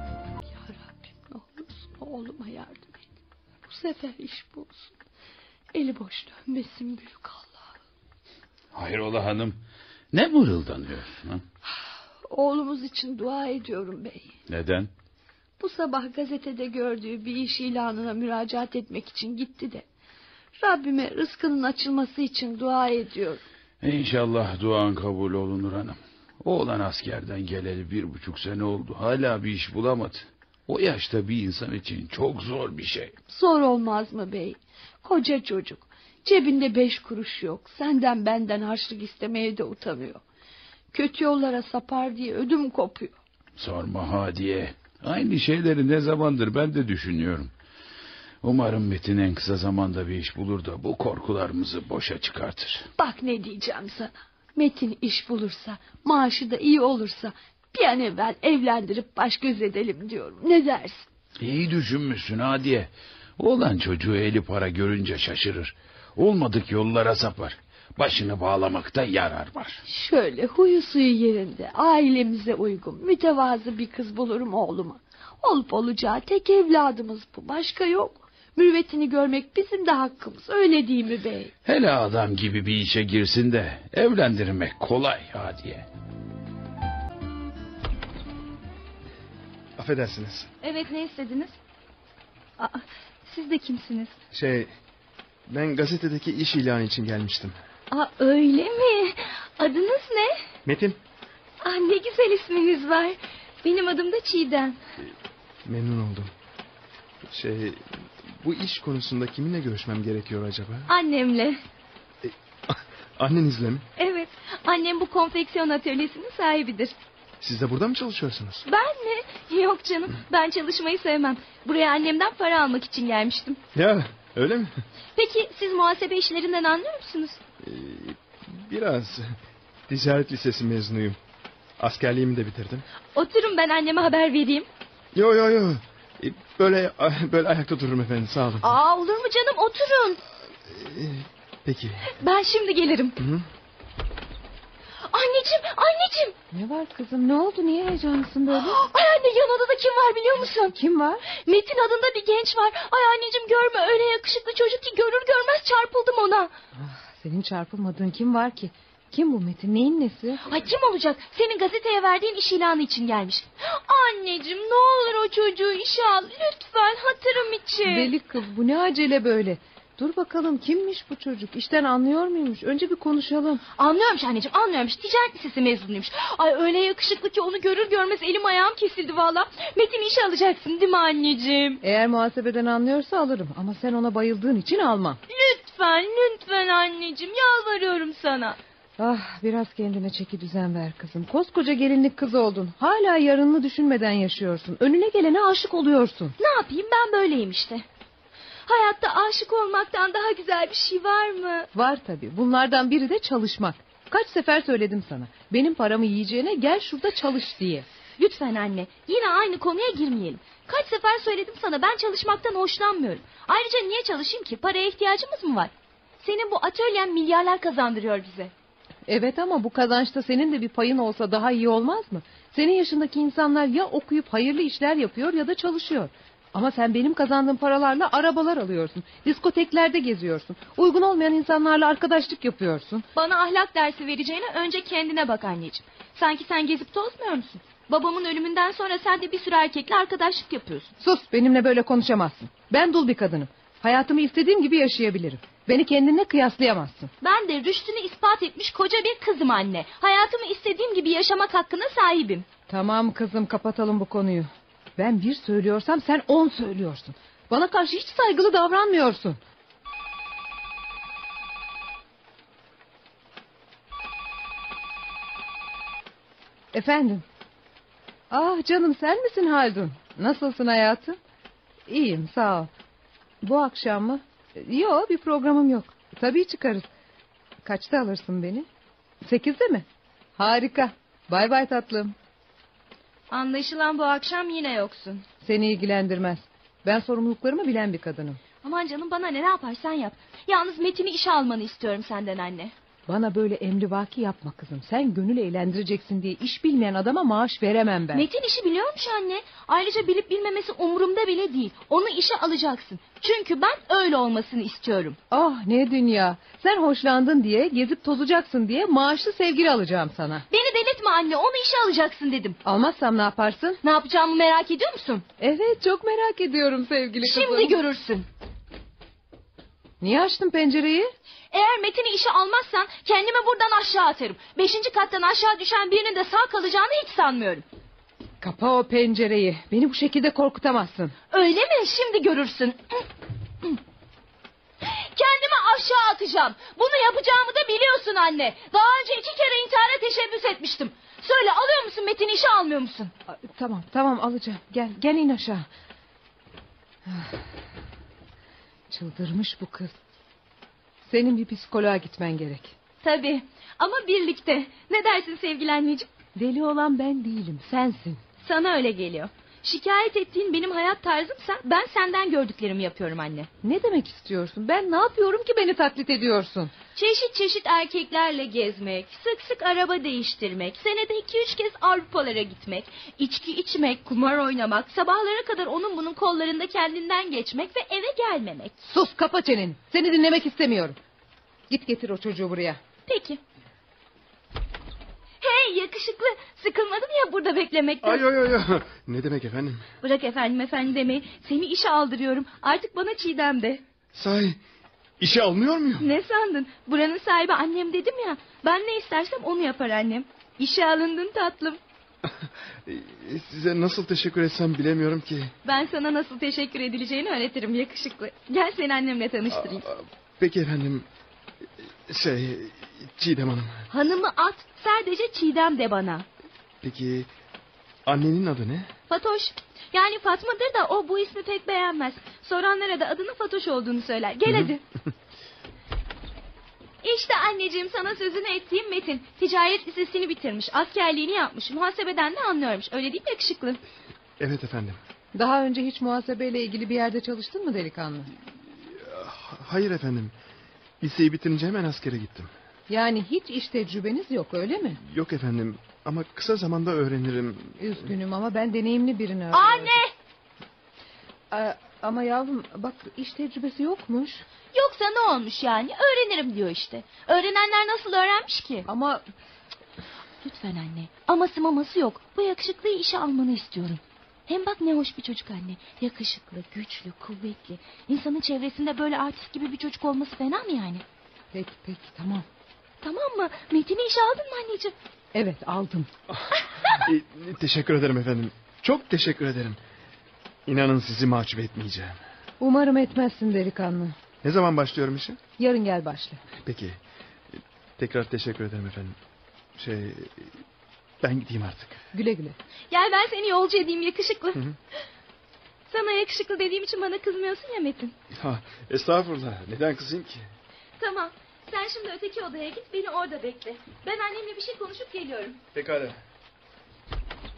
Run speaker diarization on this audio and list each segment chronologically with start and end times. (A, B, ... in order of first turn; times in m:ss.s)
0:00.5-0:03.0 A
0:03.7-0:05.0 A
0:05.7-0:07.7 A
0:08.7-0:09.6 B
0:10.1-0:11.4 B
0:12.3-0:14.3 A
0:14.5-0:14.9 B
0:15.6-0:19.8 A
0:20.6-0:23.4 A
0:23.8-0:33.2 B
0:33.3-0:40.2 A
0:40.9-0:43.2 A
0:43.6-0:47.5 B
0:48.4-0:52.9 B
0:53.0-1:01.1 A
1:01.4-1:09.8 B
1:09.9-1:21.5 A
1:21.6-1:25.9 B
1:29.8-1:30.5 C
1:30.6-1:31.6 D
1:32.6-1:34.2 D
1:34.3-1:34.7 C
1:35.5-1:37.6 C
1:37.9-1:40.4 D
1:40.6-1:41.0 C
1:41.6-1:44.8 D
1:45.6-1:46.3 C
1:47.3-1:50.9 C
1:50.9-1:51.6 D
1:52.2-1:53.9 C
1:54.0-1:57.0 D
1:57.4-1:58.6 C
1:58.6-2:03.6 D
2:03.7-2:04.7 C
2:05.2-2:07.4 D
2:07.6-2:09.4 C
2:09.9-2:11.2 C
2:11.8-2:12.8 C
2:13.1-2:14.7 D
2:15.1-2:18.7 C
2:18.6-2:20.2 D
2:20.7-2:22.1 C
2:22.0-2:23.2 D
2:23.2-2:23.5 C
2:25.1-2:26.4 D
2:26.5-2:28.8 E
2:28.5-2:30.8 D
2:30.7-2:31.2 E
2:31.4-2:36.5 D
2:36.8-2:40.4 E
2:40.4-2:48.1 D
2:47.8-2:53.6 E
2:53.8-3:01.8 D
3:01.8-3:05.2 E
3:05.3-3:08.6 D
3:09.0-3:16.4 E
3:16.4-3:17.8 D
3:18.7-3:21.7 D
3:21.7-3:27.9 E
3:28.2-3:38.5 D
3:39.1-3:53.0 E
3:53.1-4:00.9 D
4:01.0-4:07.1 E
4:07.2-4:12.4 D
4:12.7-4:19.4 E
4:26.7-4:27.2 E
4:28.3-4:31.2 E
4:31.9-4:32.7 E
4:33.4-4:36.9 E
4:37.6-4:38.7 E
4:39.2-4:39.9 E
4:40.4-4:42.2 E
4:43.3-4:45.2 D
4:45.4-4:48.4 E
4:48.6-4:52.7 D
4:53.1-4:58.3 E
4:58.1-5:05.2 D
5:05.3-5:10.5 E
5:10.5-5:12.6 D
5:12.6-5:13.8 E
5:13.8-5:15.2 D
5:15.4-5:17.8 E
5:17.2-5:18.3 D
5:20.0-5:21.1 E
5:21.5-5:27.6 D
5:28.4-5:31.2 E
5:31.3-5:33.0 D
5:34.8-5:43.1 D
5:43.3-5:45.7 E
5:47.0-5:47.4 E
5:48.9-5:50.0 E
5:51.1-5:52.8 E
5:53.0-5:56.1 D
5:56.4-5:58.2 E
5:58.4-6:03.5 D
6:03.6-6:06.7 E
6:07.0-6:18.8 D
6:18.9-6:21.0 E
6:21.7-6:22.8 E
6:23.1-6:23.4 D
6:25.4-6:28.3 D
6:28.0-6:29.8 C
6:30.0-6:33.8 D
6:34.1-6:34.6 C
6:35.2-6:36.1 C
6:36.0-6:41.8 D
6:42.9-6:45.5 C
6:45.6-6:49.9 D
6:49.5-6:51.1 C
6:52.1-6:53.9 C
6:53.9-6:56.3 D
6:56.8-6:57.3 C
6:58.0-6:58.9 C
6:59.1-7:04.8 D
7:07.0-7:13.8 D
7:14.4-7:15.0 C
7:15.4-7:18.3 E
7:18.8-7:20.4 C
7:21.0-7:22.5 C
7:22.9-7:25.0 E
7:25.0-7:28.1 C
7:27.8-7:30.0 E
7:29.5-7:30.1 D
7:31.5-7:34.4 E
7:34.7-7:38.9 D
7:38.9-7:39.2 E
7:40.4-7:51.0 D
7:51.5-7:52.5 E
7:53.0-7:54.9 D
7:55.3-7:56.1 E
7:56.3-7:59.8 C
7:56.6-7:57.1 D
8:00.7-8:02.2 C
8:02.6-8:04.2 E
8:04.4-8:05.4 C
8:05.6-8:06.4 E
8:06.6-8:07.0 C
8:07.6-8:09.2 C
8:09.8-8:10.6 C
8:11.2-8:12.1 C
8:12.1-8:12.6 E
8:12.9-8:14.6 D
8:15.9-8:18.1 D
8:18.3-8:20.5 C
8:21.0-8:25.6 D
8:25.7-8:26.2 C